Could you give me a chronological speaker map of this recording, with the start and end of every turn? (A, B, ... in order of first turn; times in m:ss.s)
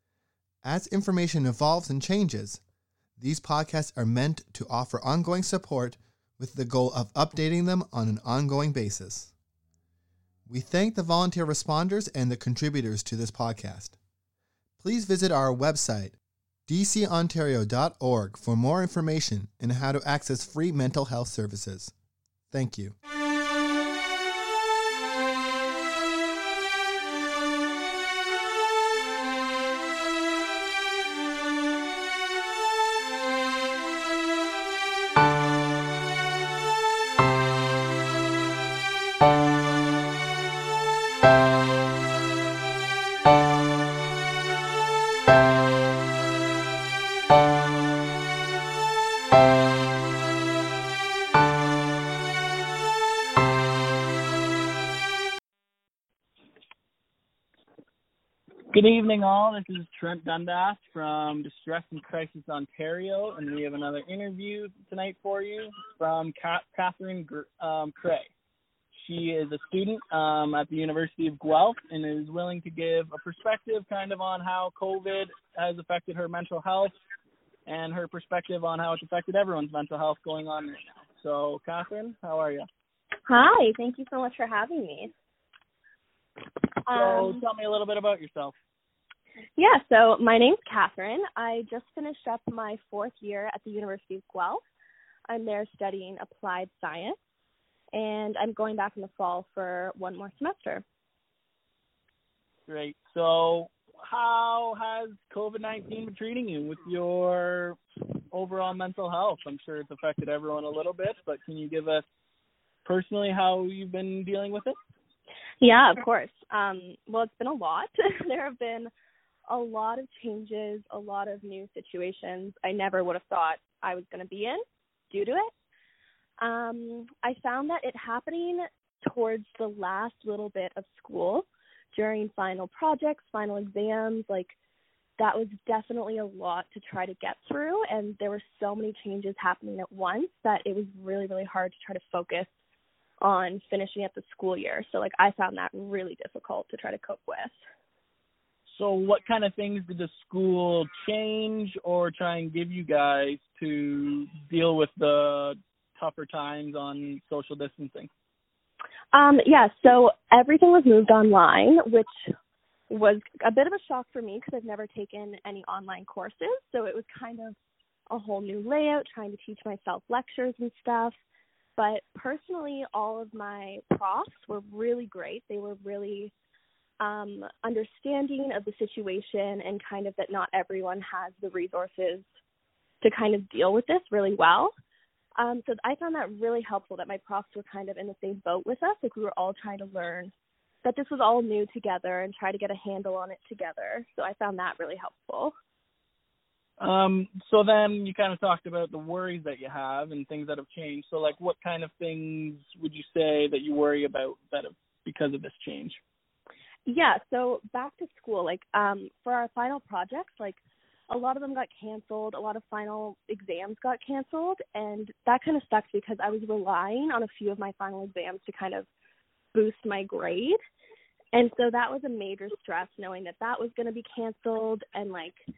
0:00.6-0:02.6 A
0:03.2-0:09.3 A
0:10.5-0:14.0 A
0:14.8-0:21.9 A
0:22.5-0:22.9 A
0:58.7-1:08.3 B
1:08.9-1:16.9 B
1:17.6-1:22.6 B
1:23.2-1:25.1 C
1:26.8-1:28.5 B
1:26.9-1:27.4 C
1:29.6-1:34.6 C
1:35.3-1:37.2 C
1:37.9-1:40.8 C
1:42.7-1:47.8 B
1:48.3-1:52.0 B
1:52.8-1:54.8 B
1:55.6-1:58.9 C
1:59.5-2:05.5 C
2:06.4-2:14.5 C
2:15.2-2:22.5 C
2:23.2-2:27.6 C
2:28.7-2:38.1 B
2:39.1-2:42.3 C
2:42.9-2:47.6 C
2:48.1-2:51.1 C
2:51.8-2:56.3 C
2:57.0-3:02.3 C
3:03.0-3:04.7 C
3:05.4-3:10.3 C
3:10.8-3:15.5 C
3:16.8-3:26.0 B
3:26.9-3:38.9 C
3:39.5-3:40.6 C
3:41.3-3:45.4 C